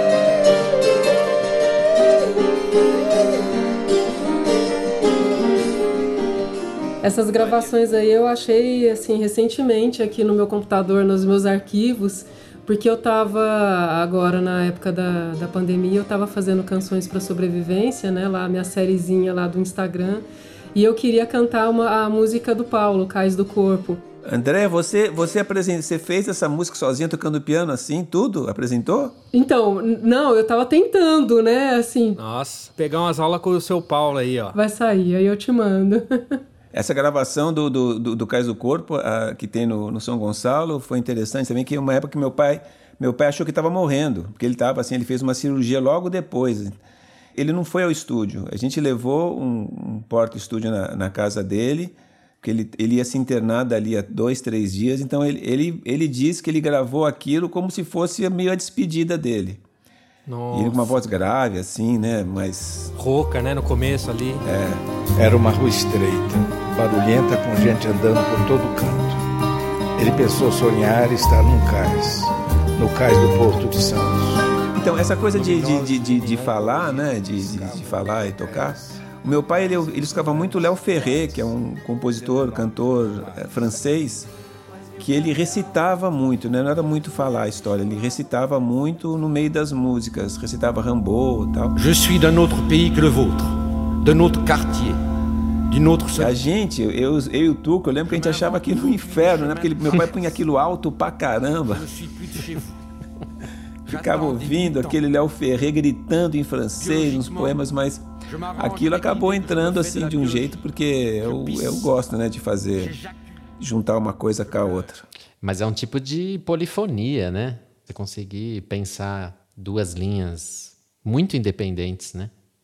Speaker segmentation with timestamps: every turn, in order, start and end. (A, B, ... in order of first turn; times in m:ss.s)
0:07.0-0:24.0 A
0:24.2-0:29.1 B
0:29.3-0:32.2 A
0:32.2-0:34.6 C
0:34.5-0:36.4 A
0:36.7-0:46.8 B
0:47.4-0:59.6 B
1:00.3-1:01.0 C
1:00.5-1:02.9 B
1:03.0-1:04.4 C
1:04.4-1:04.8 B
1:05.2-1:09.2 D
1:10.0-1:14.5 D
1:14.7-1:24.3 B
1:15.4-1:19.0 D
1:20.2-1:20.5 D
1:22.2-1:22.7 E
1:25.0-1:31.8 B
1:31.8-1:35.0 E
1:35.7-1:36.4 E
1:36.2-1:41.8 B
1:38.1-1:39.9 E
1:41.7-1:42.7 E
1:43.9-1:45.0 E
1:43.9-1:53.0 B
1:46.8-1:47.6 E
1:48.3-1:50.5 E
1:51.3-1:51.9 E
1:53.6-1:55.0 B
1:55.4-2:02.3 F